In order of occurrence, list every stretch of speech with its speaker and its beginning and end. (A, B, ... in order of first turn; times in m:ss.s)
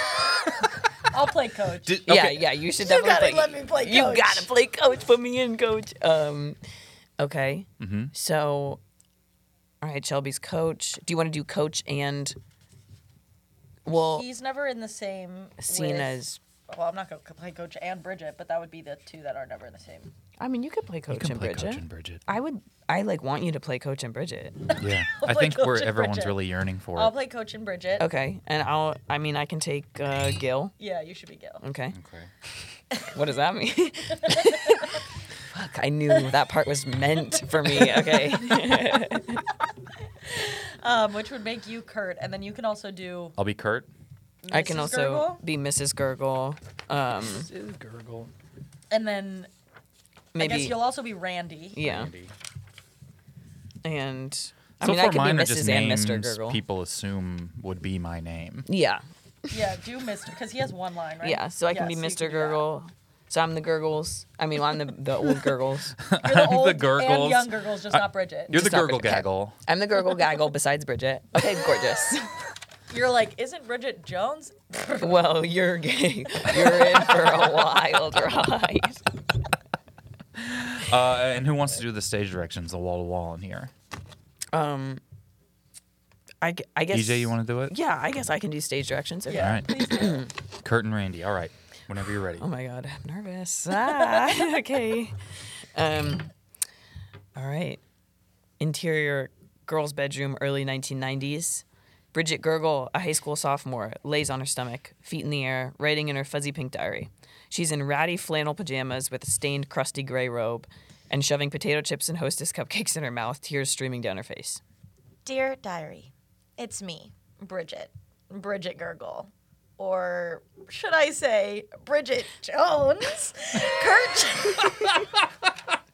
0:01.1-0:02.0 A
0:01.9-0:02.5 B
0:02.1-0:06.6 C
0:02.8-0:04.5 A
0:07.2-0:08.8 C
0:07.8-0:08.1 B
0:09.8-0:12.4 C
0:13.9-0:14.2 C
0:13.9-0:20.1 A
0:15.6-0:16.4 C
0:20.4-0:24.6 C
0:21.1-0:22.2 B
0:24.7-0:26.4 A
0:24.8-0:27.1 B
0:27.0-0:28.1 A
0:28.0-0:30.7 C
0:30.8-0:31.6 A
0:31.6-0:32.0 C
0:31.9-0:32.3 B
0:33.1-0:35.0 C
0:34.3-0:34.7 A
0:35.5-0:39.4 C
0:40.3-0:43.4 A
0:43.4-0:43.9 B
0:44.4-0:45.4 A
0:44.5-0:47.5 C
0:47.2-0:48.3 B
0:48.9-0:49.5 A
0:50.4-0:50.8 C
0:50.4-0:51.8 A
0:51.7-0:52.1 C
0:51.8-0:52.3 B
0:53.8-0:56.6 C
0:54.8-0:58.7 B
0:58.7-0:59.0 C
0:59.5-1:02.6 A
1:01.2-1:06.0 C
1:06.1-1:09.6 B
1:06.2-1:08.5 A
1:08.5-1:12.3 C
1:12.9-1:15.3 A
1:15.0-1:19.0 C
1:20.4-1:23.7 B
1:24.5-1:25.0 C
1:26.4-1:30.3 C
1:26.9-1:27.7 B
1:29.3-1:30.3 A
1:29.4-1:29.7 B
1:30.6-1:32.5 B
1:32.4-1:35.2 C
1:35.8-1:36.3 C
1:37.4-1:37.8 C
1:38.6-1:54.6 C
1:55.2-2:05.1 A